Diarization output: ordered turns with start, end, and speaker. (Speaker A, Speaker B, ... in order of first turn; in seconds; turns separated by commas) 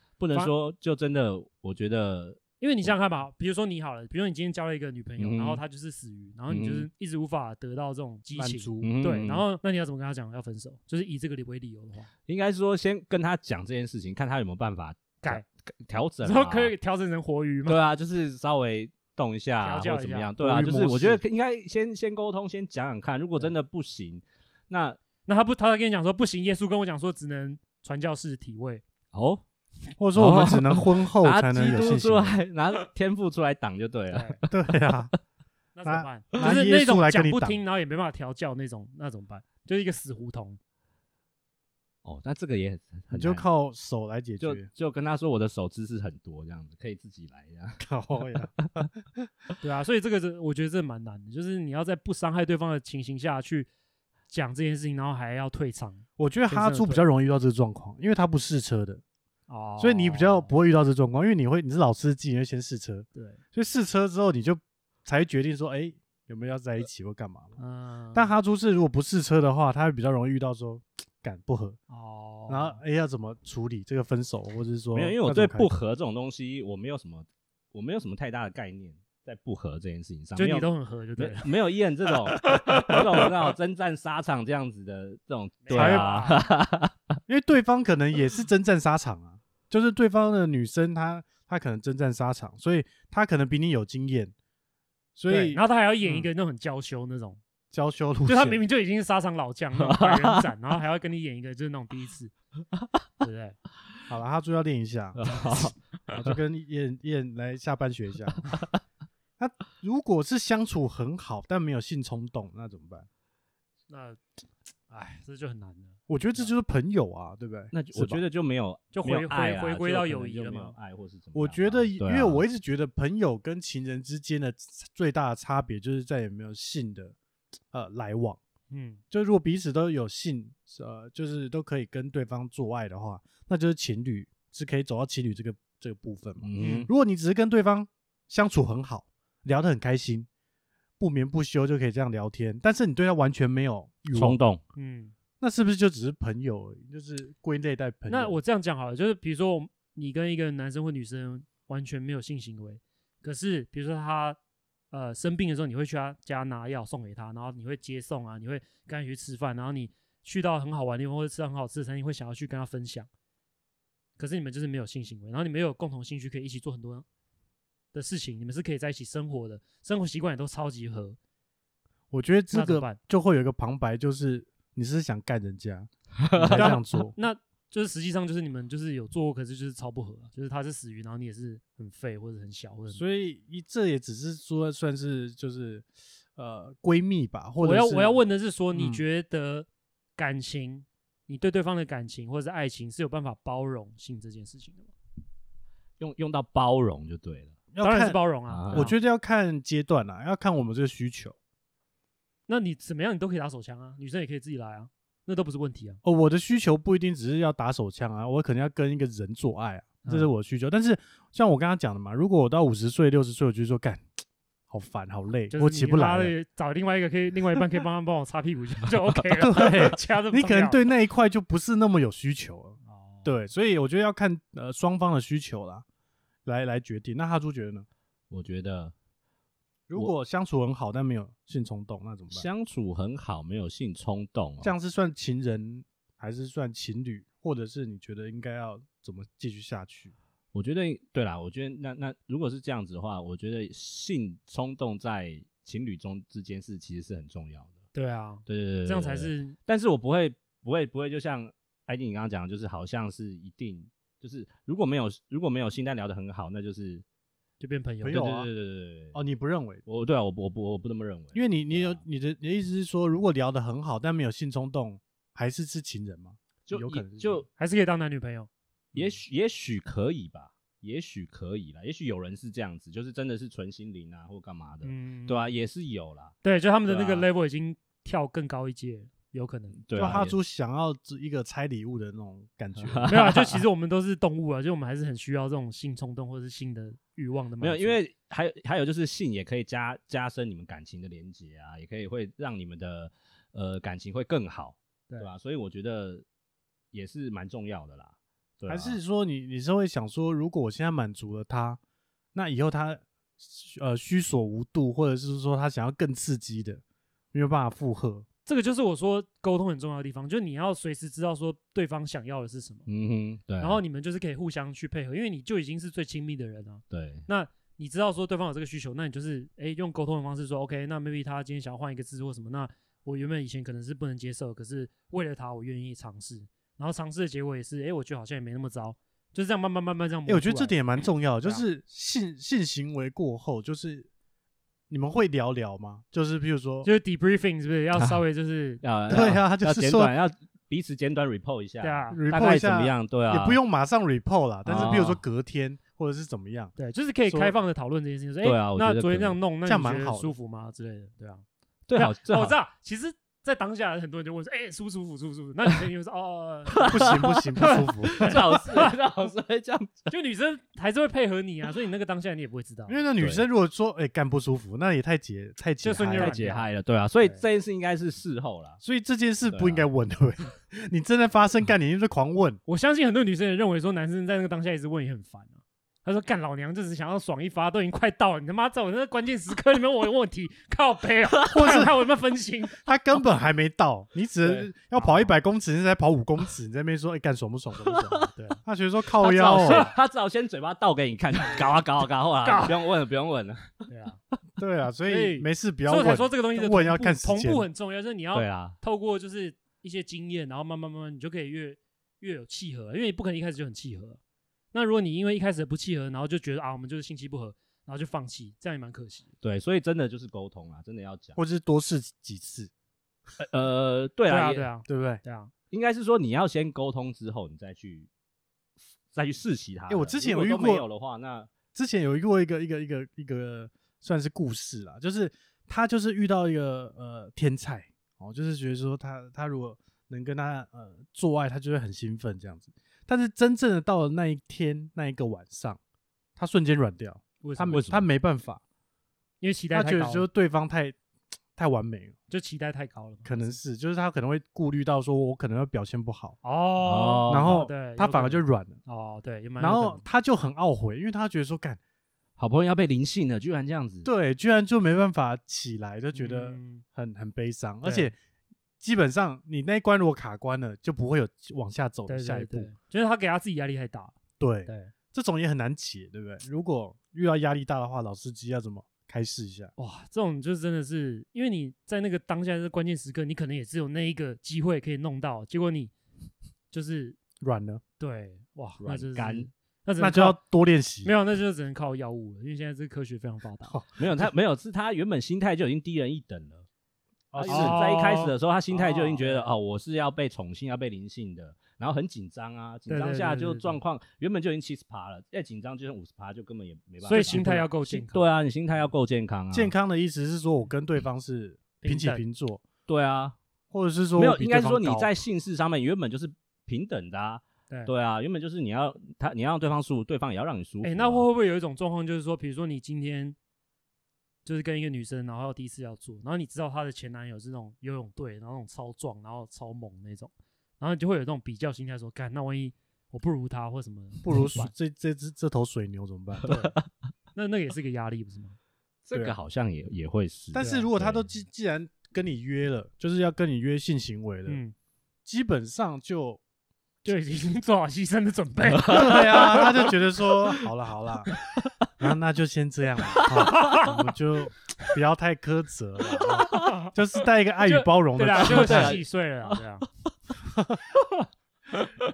Speaker A: 0.2-3.0, Speaker B: 2.6-12.1, Speaker A: 5.2-5.6, Speaker A: 6.5-6.9, Speaker C: 8.3-8.9, Speaker A: 8.8-9.5, Speaker A: 12.3-16.8, Speaker B: 16.2-17.8, Speaker A: 17.7-25.0, Speaker B: 19.6-20.3, Speaker C: 20.4-21.2, Speaker B: 25.3-28.8, Speaker A: 29.1-29.4, Speaker C: 30.0-32.4, Speaker A: 30.1-35.0, Speaker B: 34.1-34.4, Speaker C: 34.5-35.1, Speaker B: 35.8-40.6, Speaker C: 35.8-37.6, Speaker A: 42.0-43.5, Speaker C: 43.1-44.7, Speaker A: 44.4-47.8, Speaker C: 47.8-49.3, Speaker B: 49.6-53.7, Speaker B: 54.3-57.0, Speaker C: 56.2-59.0, Speaker B: 59.5-60.5, Speaker C: 59.8-67.6, Speaker B: 63.1-63.4, Speaker B: 67.6-68.3, Speaker C: 68.1-71.8, Speaker B: 71.9-72.8, Speaker C: 72.5-75.7, Speaker A: 74.9-86.9, Speaker B: 80.4-81.5, Speaker B: 85.6-86.5, Speaker C: 85.7-86.2, Speaker C: 87.3-94.3, Speaker C: 95.2-96.3, Speaker B: 95.3-97.4, Speaker C: 97.7-98.6, Speaker B: 98.3-102.3, Speaker A: 99.8-100.4, Speaker B: 103.2-103.6, Speaker C: 104.1-105.2, Speaker A: 105.2-105.7, Speaker C: 106.1-108.5, Speaker C: 109.4-113.1, Speaker B: 113.9-114.2, Speaker B: 114.9-116.5, Speaker C: 116.1-118.2, Speaker A: 117.7-122.4, Speaker B: 118.9-120.8, Speaker C: 121.3-127.2, Speaker C: 127.7-128.4, Speaker B: 128.7-129.0, Speaker C: 129.1-140.3, Speaker A: 136.4-136.9, Speaker B: 136.6-136.9, Speaker C: 141.0-144.4, Speaker A: 144.1-144.6, Speaker B: 144.7-145.1, Speaker C: 145.4-148.4, Speaker B: 148.1-154.4, Speaker B: 154.9-163.1, Speaker B: 164.2-167.1, Speaker B: 167.9-171.2, Speaker C: 172.1-177.2, Speaker B: 172.5-173.0, Speaker A: 176.3-176.8, Speaker B: 176.5-183.0, Speaker C: 182.9-188.2, Speaker B: 187.6-194.9, Speaker C: 188.7-189.0, Speaker A: 196.0-197.6, Speaker C: 197.7-198.2, Speaker B: 197.8-199.0, Speaker A: 198.5-198.9, Speaker C: 198.7-201.3, Speaker B: 202.5-206.0, Speaker C: 206.0-214.1, Speaker B: 210.0-210.3, Speaker C: 214.7-216.3, Speaker B: 215.5-220.8, Speaker C: 219.4-225.8, Speaker B: 222.8-223.3, Speaker C: 226.4-227.9, Speaker A: 228.3-228.9, Speaker C: 229.9-232.5, Speaker A: 232.3-234.7, Speaker C: 234.6-240.1, Speaker A: 240.5-247.8, Speaker B: 247.9-249.6, Speaker A: 248.5-257.1, Speaker B: 257.6-258.2, Speaker C: 258.0-258.5, Speaker A: 258.0-259.2, Speaker C: 259.1-259.8, Speaker A: 259.9-262.0, Speaker C: 261.3-267.5, Speaker A: 266.6-267.5, Speaker B: 267.6-268.5, Speaker C: 268.9-269.2, Speaker A: 268.9-277.3, Speaker B: 274.8-275.5, Speaker B: 276.4-279.8, Speaker A: 279.8-280.4, Speaker C: 279.9-283.2, Speaker A: 282.8-283.6, Speaker B: 283.1-288.0, Speaker A: 287.6-296.3, Speaker A: 296.9-299.0, Speaker C: 298.7-301.8, Speaker C: 302.4-306.8, Speaker C: 307.3-308.3, Speaker B: 308.5-312.9, Speaker A: 312.9-313.8, Speaker B: 313.6-331.6, Speaker A: 316.9-317.3, Speaker C: 330.3-334.1, Speaker C: 334.9-336.9, Speaker B: 336.8-338.8, Speaker A: 338.0-338.2, Speaker A: 338.8-343.6, Speaker C: 339.1-340.1, Speaker B: 341.8-342.2, Speaker C: 342.1-346.7, Speaker A: 344.6-345.2, Speaker B: 344.8-345.0, Speaker B: 346.8-351.4, Speaker C: 347.3-347.6, Speaker A: 348.4-349.4, Speaker C: 349.6-350.3, Speaker A: 351.9-352.6, Speaker B: 351.9-357.1, Speaker C: 356.9-358.4, Speaker A: 356.9-357.4, Speaker B: 357.6-358.9, Speaker A: 358.2-360.0, Speaker B: 360.1-363.0, Speaker C: 362.9-366.4, Speaker A: 363.2-363.5, Speaker B: 365.8-366.7, Speaker A: 366.1-368.8, Speaker C: 368.8-372.6, Speaker A: 369.4-369.9, Speaker B: 372.7-382.8, Speaker C: 381.5-382.0, Speaker C: 382.8-389.9, Speaker B: 384.4-385.4, Speaker B: 388.3-388.6, Speaker B: 389.2-389.9, Speaker A: 389.3-393.8, Speaker B: 392.4-392.8, Speaker B: 393.9-394.2, Speaker C: 394.6-397.7, Speaker B: 395.1-404.2, Speaker A: 398.3-398.8, Speaker B: 404.7-409.3, Speaker A: 409.4-411.4, Speaker C: 411.4-412.7, Speaker A: 413.4-414.7, Speaker B: 414.3-415.5, Speaker C: 414.9-415.2, Speaker A: 415.7-418.1, Speaker A: 419.1-421.5, Speaker C: 419.9-420.9, Speaker C: 421.8-435.8, Speaker C: 436.4-438.6, Speaker B: 437.4-437.8, Speaker A: 437.7-438.1, Speaker B: 439.4-440.3, Speaker C: 439.7-441.0, Speaker C: 441.6-442.1, Speaker B: 442.3-443.5, Speaker C: 443.2-446.4, Speaker B: 446.4-450.1, Speaker A: 446.8-447.6, Speaker C: 447.3-448.8, Speaker C: 449.6-451.8, Speaker A: 452.4-454.1, Speaker C: 454.0-458.2, Speaker B: 456.1-456.9, Speaker B: 457.8-458.1, Speaker C: 458.8-462.7, Speaker B: 462.1-464.1, Speaker C: 464.4-469.7, Speaker B: 464.7-464.9, Speaker B: 469.8-475.9, Speaker B: 476.7-477.2, Speaker C: 477.4-477.8, Speaker B: 478.0-480.4, Speaker A: 478.8-479.5, Speaker C: 480.0-481.1, Speaker B: 481.0-483.8, Speaker C: 483.7-484.0, Speaker A: 484.0-486.7, Speaker C: 487.3-487.8, Speaker B: 487.4-489.5, Speaker A: 487.5-499.7, Speaker B: 492.9-493.8, Speaker B: 497.0-498.2, Speaker C: 497.2-497.4, Speaker C: 499.5-502.6, Speaker B: 501.8-502.2, Speaker A: 502.9-503.4, Speaker C: 503.7-505.1, Speaker A: 504.2-511.3, Speaker B: 510.8-513.4, Speaker B: 514.5-524.7, Speaker C: 524.2-526.6, Speaker B: 526.5-526.7, Speaker B: 527.4-528.6, Speaker A: 529.1-531.3, Speaker C: 530.5-534.6, Speaker B: 530.6-530.9, Speaker B: 534.5-534.7, Speaker C: 535.2-536.4, Speaker B: 537.0-539.6, Speaker A: 538.8-539.6, Speaker C: 538.9-541.3, Speaker C: 542.0-549.0, Speaker B: 543.5-544.0, Speaker B: 546.5-546.9, Speaker B: 547.6-549.9, Speaker A: 548.3-549.6